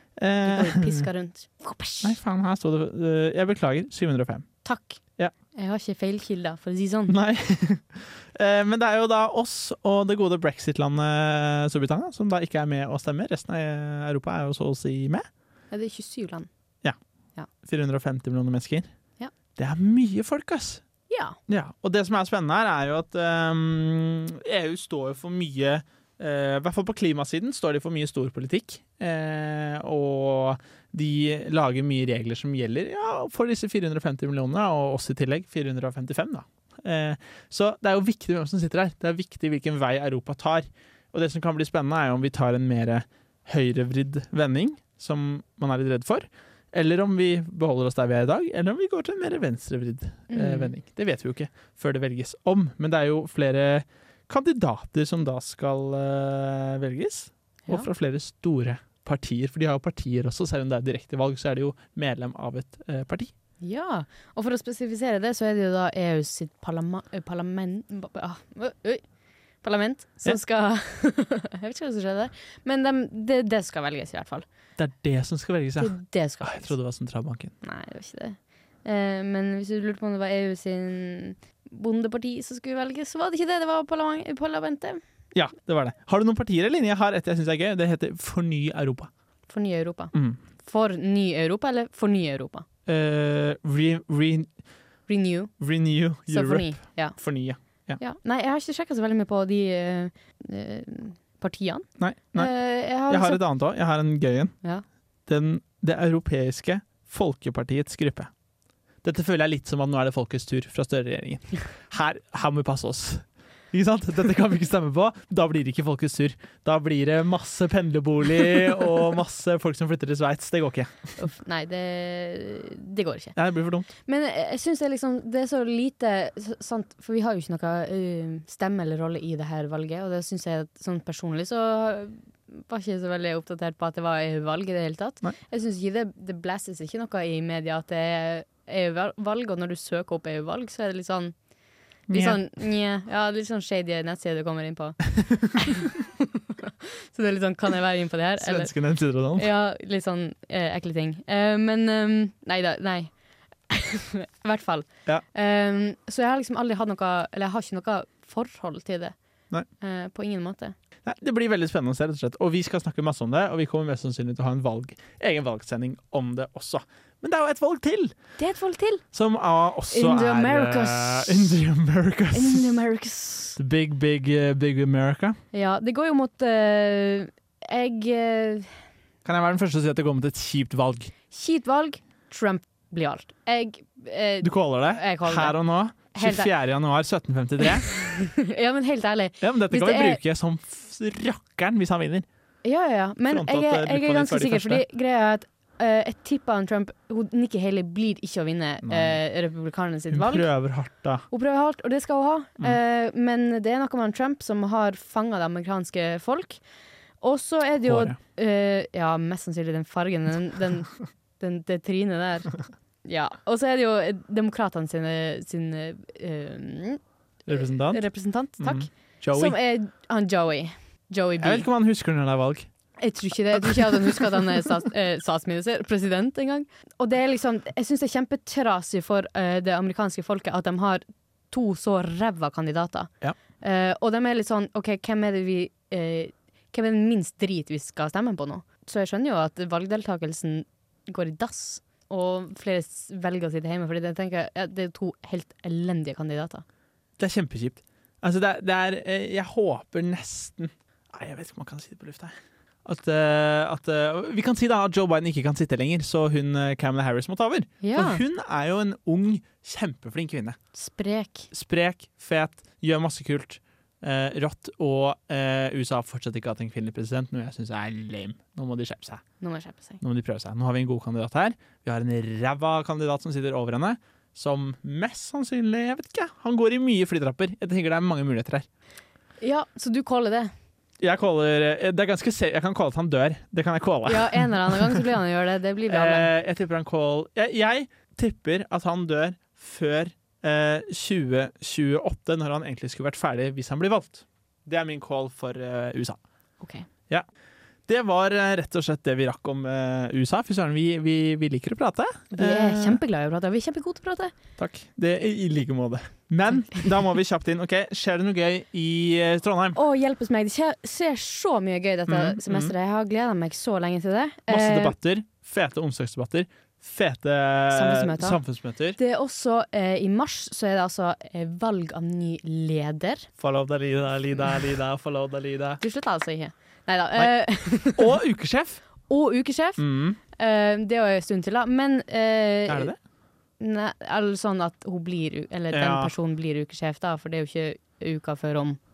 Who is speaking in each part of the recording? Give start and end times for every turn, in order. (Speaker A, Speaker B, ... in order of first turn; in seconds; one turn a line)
Speaker A: 0.2-1.1
Speaker B: 0.5-2.2
Speaker A: 2.0-4.5
Speaker B: 4.7-5.0
Speaker B: 5.5-7.2
Speaker A: 7.1-15.3
Speaker B: 15.7-16.5
Speaker A: 17.6-18.9
Speaker A: 19.6-20.8
Speaker B: 21.1-21.4
Speaker A: 21.5-63.3
Speaker B: 50.3-50.7
Speaker B: 63.6-69.0
Speaker B: 69.6-74.5
Speaker A: 74.8-77.5
Speaker B: 75.8-76.8
Speaker B: 77.6-85.0
Speaker A: 85.3-89.1
Speaker B: 89.5-92.7
Speaker A: 90.1-90.4
Speaker A: 92.9-94.5
Speaker B: 95.1-95.5
Speaker A: 95.6-98.0
Speaker B: 96.3-97.2
Speaker B: 98.0-103.4
Speaker A: 102.0-104.6
Speaker A: 105.3-108.3
Speaker A: 109.0-121.1
Speaker B: 121.2-123.4
Speaker A: 123.4-123.9
Speaker B: 124.1-141.3
Speaker A: 142.1-142.4
Speaker B: 142.1-145.0
Speaker A: 145.2-145.5
Speaker B: 145.6-146.1
Speaker B: 146.6-148.8
Speaker A: 148.4-149.5
Speaker B: 149.3-153.1
Speaker B: 153.7-159.1
Speaker B: 159.8-160.7
Speaker A: 161.1-168.2
Speaker B: 168.4-169.0
Speaker A: 169.1-172.8
Speaker B: 169.9-171.6
Speaker B: 172.3-173.6
Speaker A: 173.6-175.4
Speaker B: 175.5-178.7
Speaker A: 179.2-181.1
Speaker B: 181.3-186.5
Speaker A: 184.4-187.9
Speaker B: 187.6-190.2
Speaker A: 189.4-192.3
Speaker B: 192.6-200.5
Speaker A: 193.3-194.8
Speaker A: 198.8-199.2
Speaker A: 200.1-201.2
Speaker B: 201.3-206.6
Speaker B: 207.2-221.7
Speaker A: 207.8-208.2
Speaker A: 217.5-218.0
Speaker A: 218.6-219.6
Speaker A: 221.4-222.7
Speaker B: 223.0-246.6
Speaker A: 223.6-224.2
Speaker A: 247.2-260.6
Speaker B: 257.8-258.2
Speaker B: 260.7-261.5
Speaker A: 261.5-269.2
Speaker B: 269.4-270.0
Speaker A: 270.0-278.7
Speaker B: 279.4-280.5
Speaker A: 281.0-285.1
Speaker B: 284.1-286.3
Speaker A: 285.9-296.2
Speaker B: 296.6-296.9
Speaker A: 297.9-303.0
Speaker B: 302.3-304.3
Speaker A: 304.6-309.8
Speaker B: 309.8-314.9
Speaker A: 312.1-312.7
Speaker A: 314.5-319.0
Speaker B: 317.7-318.4
Speaker B: 319.0-323.3
Speaker A: 323.4-325.8
Speaker B: 325.8-328.1
Speaker A: 327.1-328.8
Speaker B: 329.1-332.9
Speaker A: 329.8-330.2
Speaker A: 332.7-333.0
Speaker B: 333.6-338.8
Speaker A: 335.7-336.1